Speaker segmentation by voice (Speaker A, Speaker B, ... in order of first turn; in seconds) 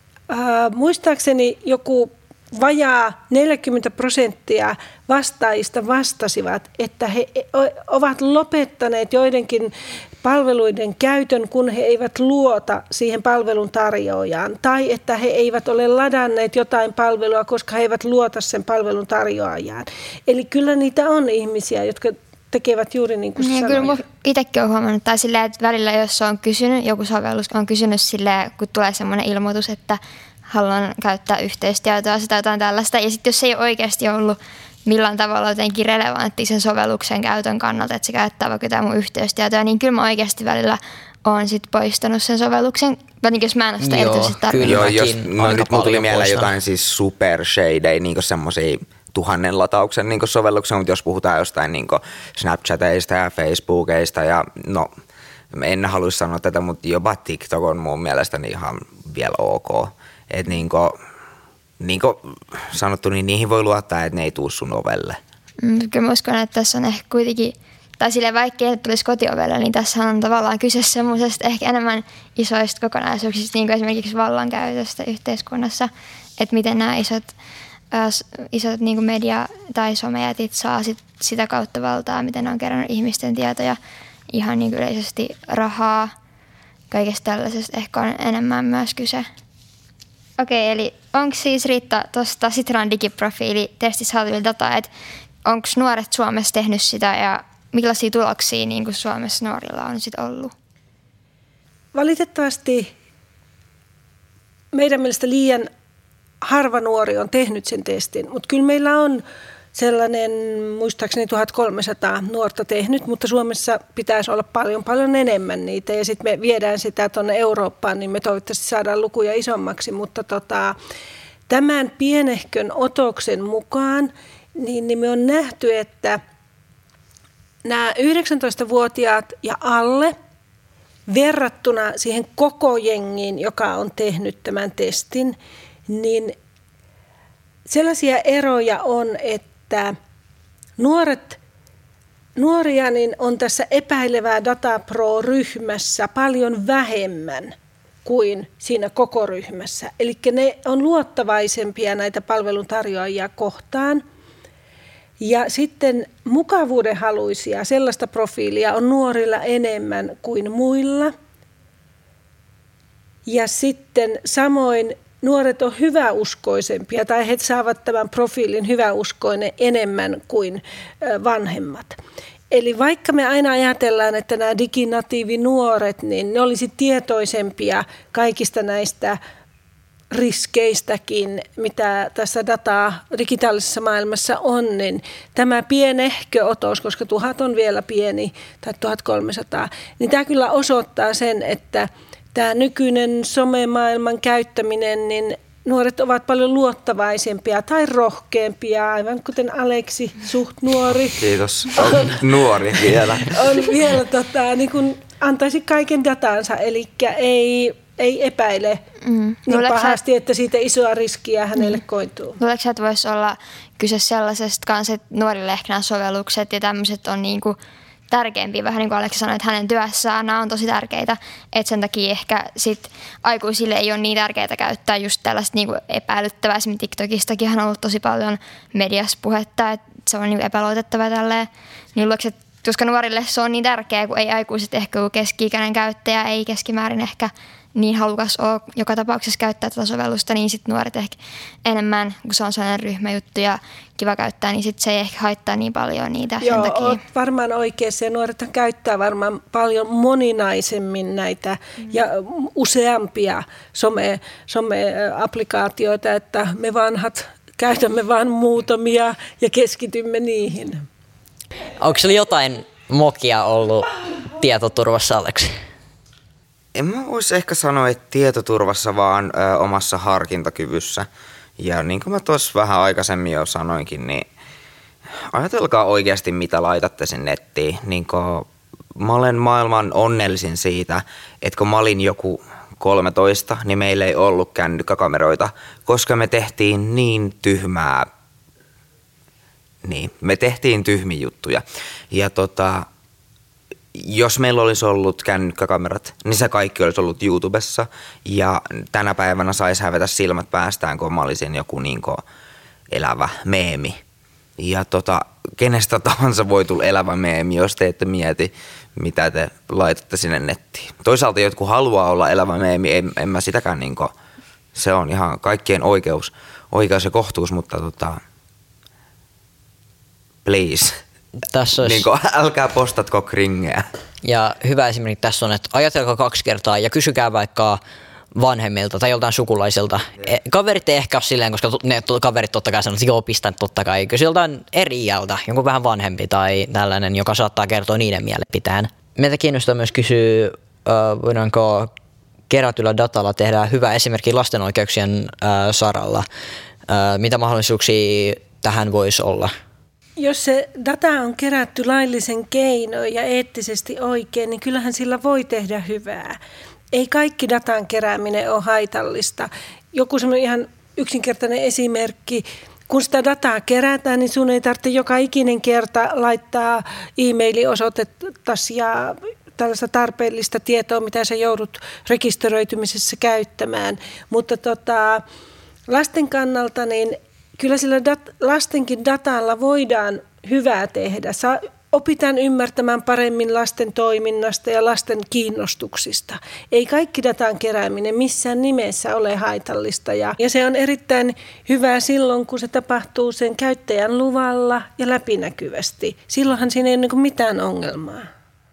Speaker A: 0.3-24.0, 101.9-102.9, 104.7-105.7, 106.4-109.2, 109.8-120.8, 121.5-126.2, 127.7-130.1, 131.1-135.4, 135.9-136.3, 137.7-139.9, 140.8-141.4, 142.4-147.5, 148.1-154.0, 155.2-161.1, 163.3-172.0, 172.5-179.2, 180.1-202.3, 202.8-208.8, 209.5-212.4, 246.4-260.9, 350.2-356.4, 356.9-375.2, 375.9-398.3
Speaker B: 23.4-44.8, 65.6-77.3, 77.9-83.8, 84.3-86.1, 86.9-89.3, 90.4-94.9, 95.5-100.5, 209.0-210.0, 212.4-217.6, 218.1-247.0
Speaker C: 43.8-46.6, 261.8-265.6, 321.5-322.1, 324.2-327.8, 328.3-341.9, 342.5-346.3, 346.9-349.5
Speaker D: 44.6-54.9, 55.5-61.0, 61.8-65.2, 201.2-203.7, 266.8-271.1, 271.6-274.3, 275.3-288.1, 289.8-292.9, 293.9-302.2, 302.9-304.0, 304.6-314.1, 314.8-318.2, 320.4-321.0, 321.8-323.9